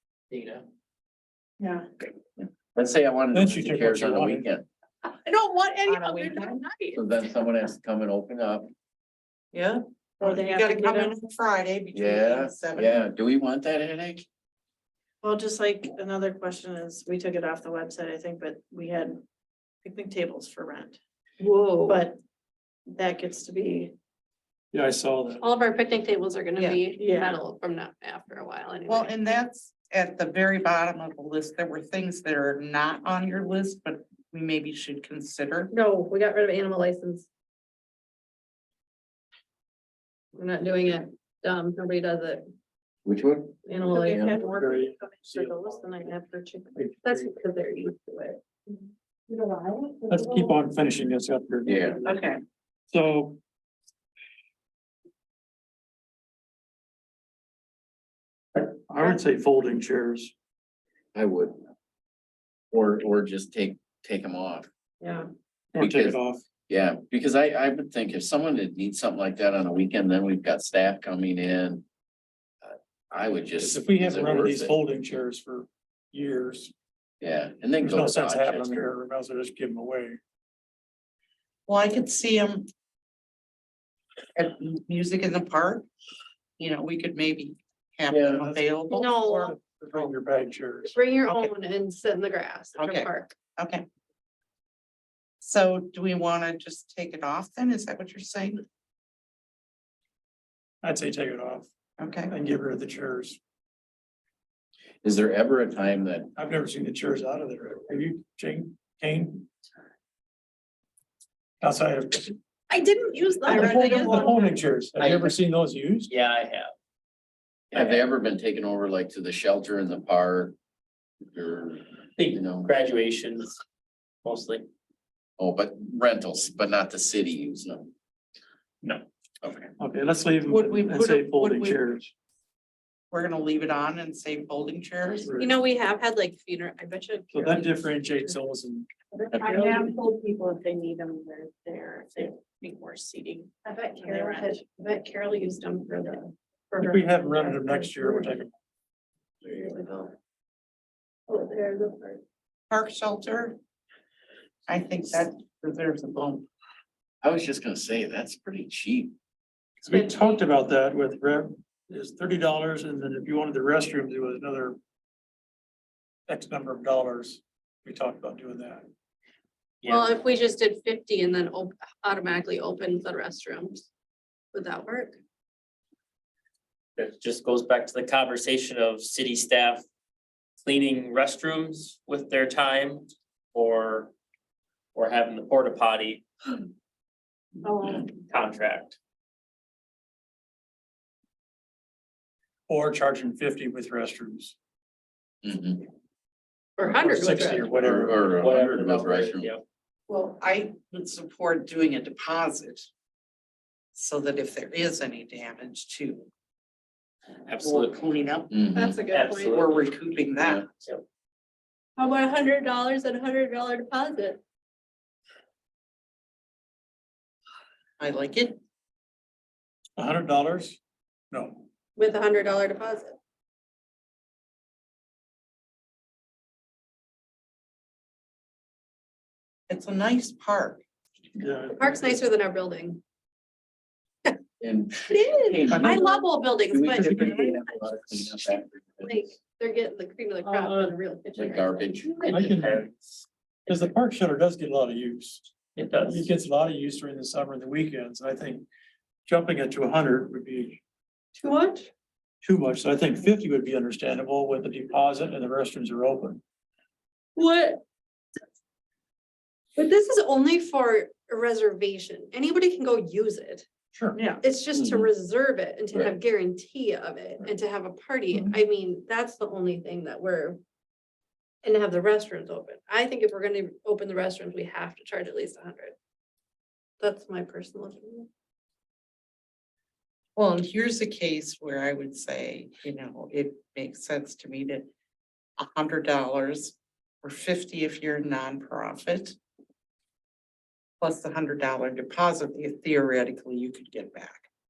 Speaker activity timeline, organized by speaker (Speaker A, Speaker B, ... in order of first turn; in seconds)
Speaker A: 0.3-0.6, 115.0-115.4, 116.1-116.7, 117.7-118.1, 122.2-123.5, 124.2-124.7, 169.8-170.1, 176.9-179.8, 180.6-184.1, 184.9-186.3, 187.8-189.0, 198.3-199.6, 207.4-208.0, 209.1-209.8, 240.4-240.9, 242.2-243.9, 245.7-246.3
Speaker B: 1.6-1.9, 10.2-11.2, 15.2-19.2, 19.8-21.0, 21.9-22.2, 22.9-23.9, 26.9-27.4, 43.8-46.7, 52.0-52.4, 139.3-144.6, 187.6-187.9, 264.1-264.4
Speaker C: 2.7-4.7, 6.9-8.7, 11.9-14.2, 43.0-44.4, 51.6-52.0, 61.1-61.6, 62.7-64.7, 65.8-66.2, 66.7-71.8, 72.6-74.7, 77.2-78.8, 88.1-88.4, 105.0-106.3, 117.7-120.5, 121.3-122.7, 125.4-127.9, 129.4-129.7, 157.2-159.1, 195.4-195.9, 197.8-199.5, 208.5-209.0, 210.4-210.7, 234.6-236.0, 236.7-239.2, 241.4-242.3, 264.7-265.1
Speaker D: 3.3-4.4, 24.7-25.4, 44.1-46.0, 46.7-47.3, 50.1-51.9, 52.9-53.4, 58.5-60.3, 65.7-66.4, 73.6-76.7, 77.8-80.2, 88.3-88.8, 89.4-91.0, 100.8-101.7, 102.3-103.4, 106.3-109.5, 111.6-112.3, 113.5-116.1, 129.8-132.1, 135.2-135.5, 137.3-138.9, 146.8-148.5, 159.8-164.8, 166.3-168.9, 192.7-194.6, 196.9-198.4, 220.0-220.8, 221.3-221.7, 231.4-232.0, 235.7-236.2, 236.9-237.5, 242.3-242.9, 243.7-245.5, 246.1-248.7, 249.2-250.8, 252.4-256.4
Speaker E: 5.2-7.0, 21.4-22.0, 25.4-29.1, 35.7-37.3, 40.3-42.4, 43.6-44.6, 47.0-50.6, 65.0-65.3, 88.9-89.6, 90.8-93.3, 112.7-114.5, 135.4-138.3, 139.2-140.0, 143.6-148.3, 149.4-150.1, 151.3-152.2, 159.9-160.3, 169.8-173.9, 174.5-175.2, 196.8-197.7, 208.7-209.5, 212.0-214.4, 221.9-223.2, 231.7-233.0, 235.0-242.3, 251.4-251.9, 257.4-257.8, 259.8-263.6, 264.4-270.6, 271.6-275.9, 277.0-278.3
Speaker F: 5.9-6.6, 9.5-13.0, 26.6-26.8, 28.9-35.7, 81.7-82.7, 84.3-85.8, 86.6-90.1, 92.8-93.8, 95.4-98.6, 102.0-102.3, 130.4-131.8, 133.1-135.3, 152.7-153.6, 154.7-156.4, 200.1-202.9, 203.9-206.3, 207.6-208.5, 209.4-210.7, 218.0-218.6, 229.7-230.8, 280.4-284.9, 285.6-289.4, 291.0-294.5